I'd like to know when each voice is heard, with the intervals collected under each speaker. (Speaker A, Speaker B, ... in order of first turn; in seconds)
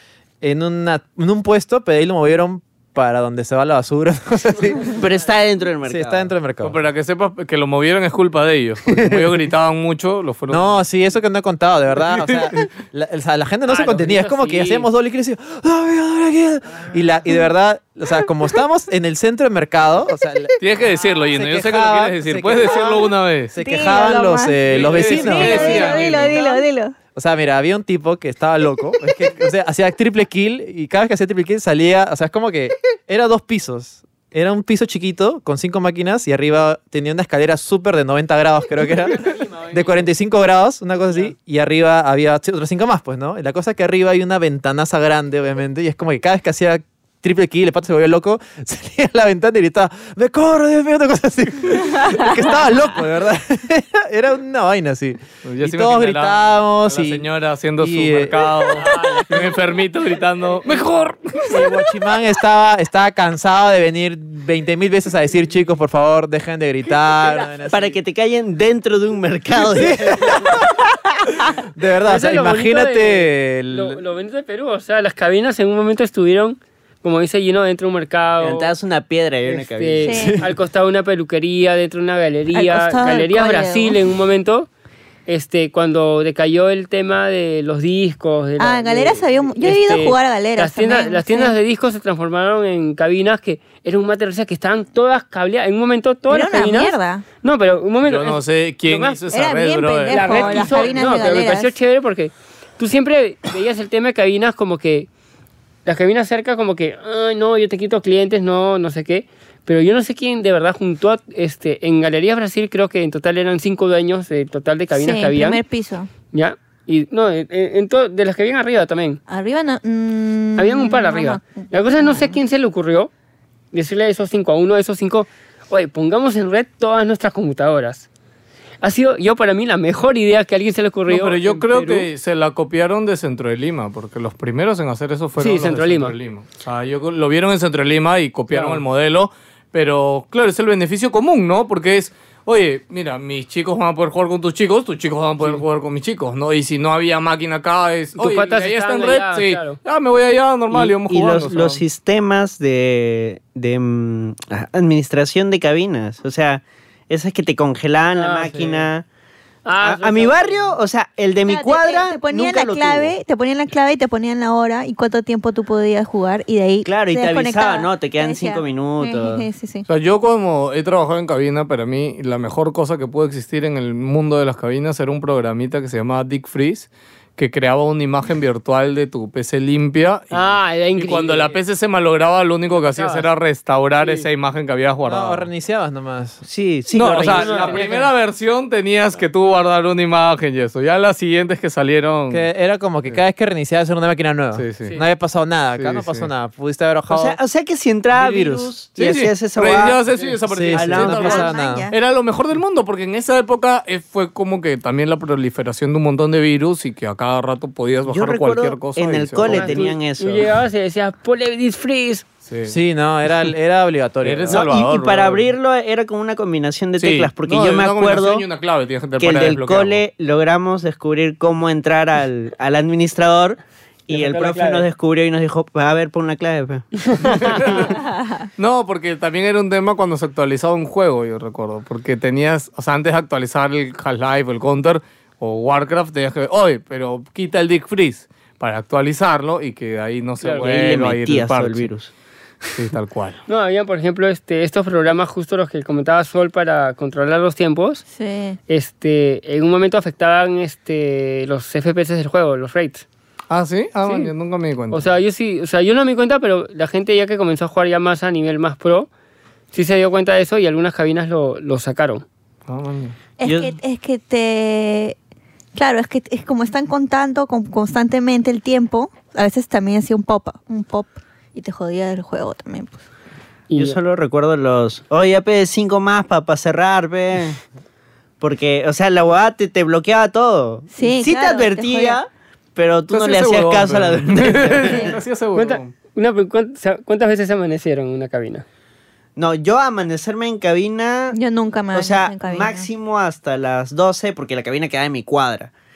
Speaker A: 0.4-5.0, 5.8-6.8, 10.5-20.6, 21.3-26.4, 27.1-57.3, 57.8-58.8, 61.5-68.0, 69.5-74.0, 80.2-80.4, 185.0-186.4, 192.3-197.4, 198.1-198.7, 200.5-201.9, 212.7-214.7
Speaker B: 4.8-6.3, 67.7-70.5, 78.4-80.3, 150.7-159.1, 159.8-163.2, 166.8-169.5, 186.4-187.8, 197.1-200.0, 200.7-201.5, 208.1-210.5, 214.5-218.4, 219.2-226.9, 240.6-242.1, 263.4-263.8, 273.7-277.6, 278.4-285.2, 289.4-291.4, 291.9-295.7
Speaker C: 6.6-10.8, 12.1-12.5, 20.6-23.5, 24.6-26.4, 55.4-61.6, 98.0-101.0, 131.1-151.8, 169.9-185.5, 186.9-192.5, 194.5-194.9, 195.7-196.3, 199.0-209.9, 212.5-212.8, 214.2-215.5, 217.0-220.0, 227.2-228.0, 228.6-241.9, 242.7-243.4, 253.5-255.1, 262.7-263.1, 283.1-285.9
Speaker D: 13.7-14.9, 58.8-59.5, 72.0-78.7, 79.4-84.7, 85.3-99.2, 100.1-105.1, 105.8-115.6, 116.3-119.2, 120.5-123.1, 123.7-128.1, 128.8-132.1, 135.4-136.2, 138.5-138.8, 148.2-149.8, 158.1-158.9, 159.6-160.7, 180.3-181.6, 182.7-183.3, 184.0-184.2, 187.0-188.1, 209.4-212.2, 224.1-224.9, 227.1-227.8, 240.4-240.7, 243.5-248.0, 248.7-253.1, 254.0-254.3, 254.9-259.1, 259.7-262.2, 273.7-274.0, 285.5-288.6
Speaker E: 23.6-26.9, 80.0-80.4, 82.5-84.0, 88.6-91.6, 96.3-97.2, 99.3-101.7, 114.9-116.1, 119.3-122.3, 161.4-169.9, 201.1-201.9, 228.0-228.4, 248.1-248.6, 263.4-265.1, 265.7-273.0, 280.9-282.2, 291.3-292.9